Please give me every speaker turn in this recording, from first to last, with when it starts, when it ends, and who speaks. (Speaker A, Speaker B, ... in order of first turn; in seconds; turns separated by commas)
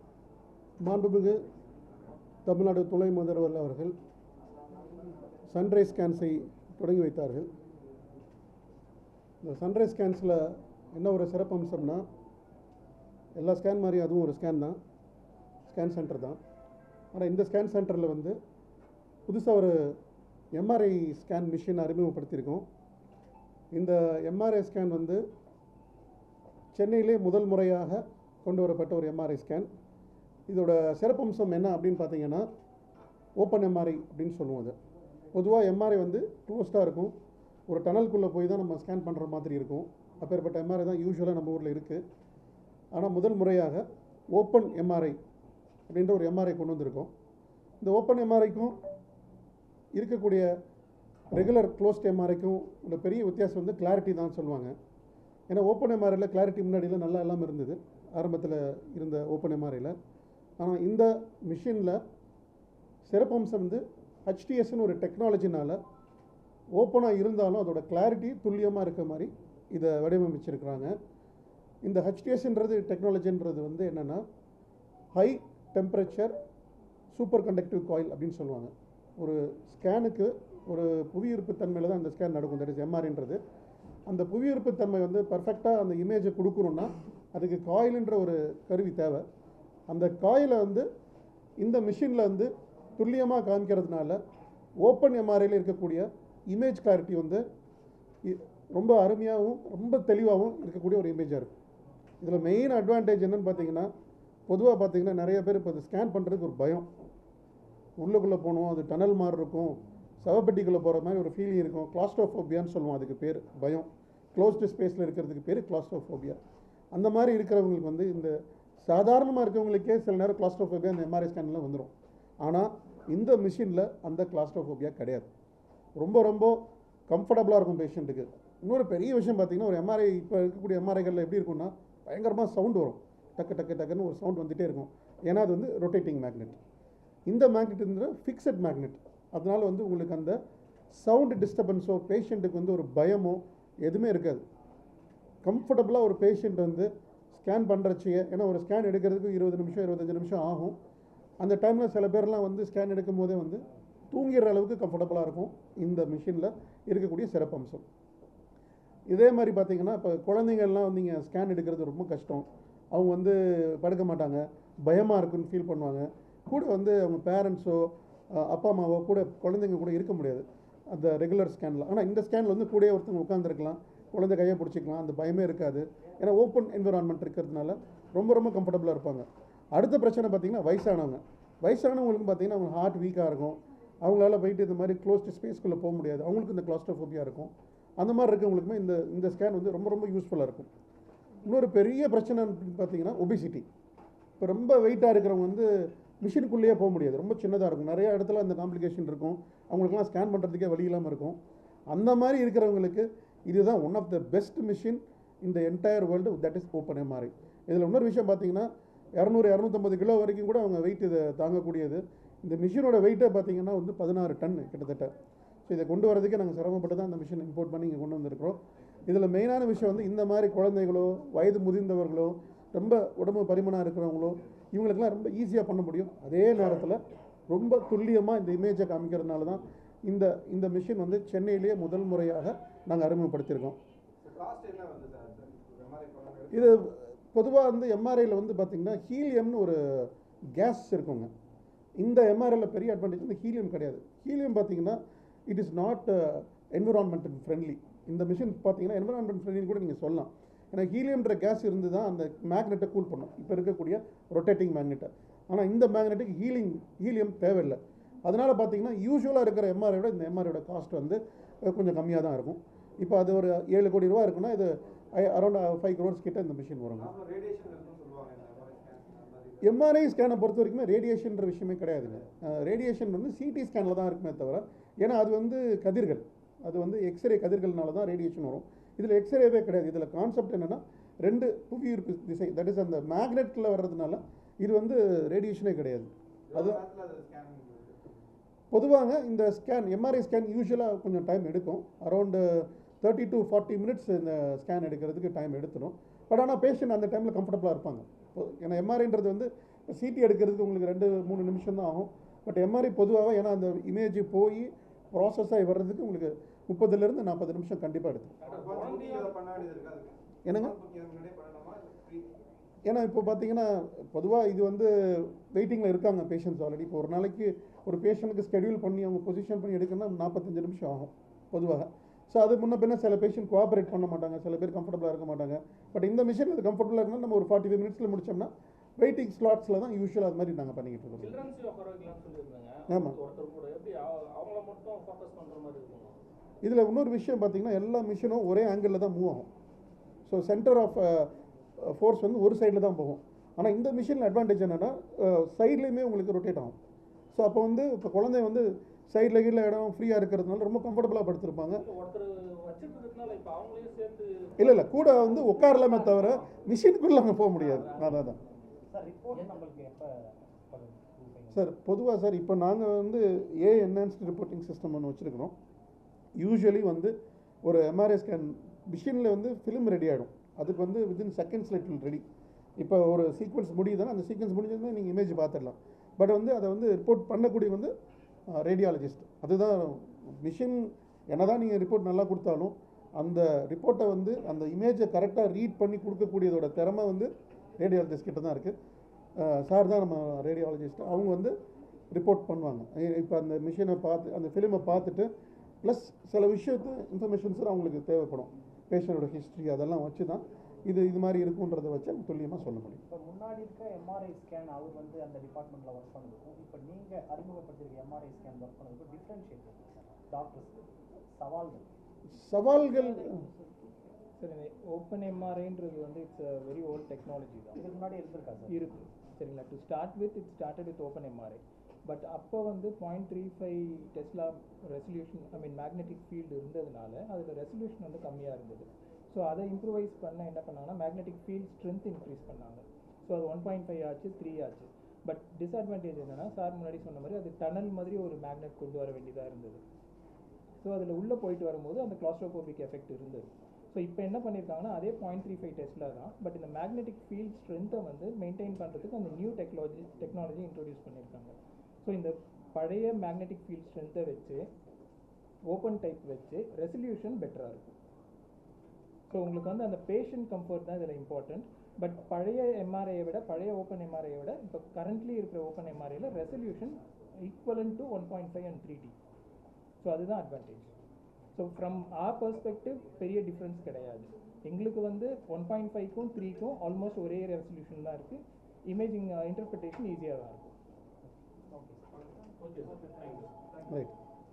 Speaker A: 0.8-1.4, Speaker A: 2.5-3.9, Speaker A: 5.5-7.5, Speaker A: 9.4-12.0, Speaker A: 13.3-14.8, Speaker A: 15.7-16.4, Speaker A: 17.1-18.4, Speaker A: 19.3-20.0, Speaker A: 20.5-22.6, Speaker A: 23.7-25.2, Speaker A: 26.7-29.7, Speaker A: 30.5-32.5, Speaker A: 33.4-34.8, Speaker A: 35.3-37.1, Speaker A: 37.7-42.0, Speaker A: 42.9-45.2, Speaker A: 45.9-47.1, Speaker A: 47.8-48.8, Speaker A: 49.9-50.5, Speaker A: 51.3-54.7, Speaker A: 55.5-59.9, Speaker A: 60.6-62.0, Speaker A: 63.0-65.8, Speaker A: 66.7-71.0, Speaker A: 71.8-74.2, Speaker A: 75.1-76.3, Speaker A: 77.1-83.4, Speaker A: 84.1-89.2, Speaker A: 89.9-90.8, Speaker A: 91.6-94.2, Speaker A: 94.8-97.4, Speaker A: 98.2-101.5, Speaker A: 102.2-103.9, Speaker A: 104.5-106.9, Speaker A: 108.0-116.4, Speaker A: 116.9-121.9, Speaker A: 122.4-125.3, Speaker A: 126.0-136.6, Speaker A: 137.3-140.4, Speaker A: 140.9-144.4, Speaker A: 145.4-150.8, Speaker A: 151.4-157.8, Speaker A: 159.1-190.7, Speaker A: 191.4-193.7, Speaker A: 194.4-201.4, Speaker A: 201.9-215.1, Speaker A: 215.7-233.8, Speaker B: 234.2-236.8, Speaker A: 236.5-241.3, Speaker A: 242.0-267.1, Speaker B: 266.9-269.7, Speaker A: 269.6-286.8, Speaker B: 286.5-288.1, Speaker A: 288.7-308.3, Speaker C: 308.4-309.5, Speaker B: 308.5-312.3, Speaker A: 310.4-310.8, Speaker A: 312.9-331.4, Speaker C: 331.2-336.2, Speaker A: 332.9-333.2, Speaker A: 336.6-339.5, Speaker A: 340.3-346.7, Speaker A: 347.3-351.8, Speaker C: 351.8-356.4, Speaker A: 354.6-358.4, Speaker C: 357.5-358.4, Speaker D: 358.9-361.7, Speaker A: 361.5-365.5, Speaker A: 366.4-372.2, Speaker A: 372.8-377.9, Speaker A: 378.5-388.7, Speaker A: 389.4-391.5, Speaker A: 392.1-395.3, Speaker A: 395.8-403.0, Speaker D: 403.1-411.9, Speaker A: 412.3-413.4, Speaker E: 413.5-417.9, Speaker D: 417.8-418.8, Speaker E: 418.7-439.8, Speaker E: 440.8-454.6, Speaker E: 455.7-457.9, Speaker E: 459.3-469.1, Speaker E: 470.0-470.9, Speaker E: 471.5-480.7, Speaker D: 481.7-482.0, Speaker C: 482.6-483.5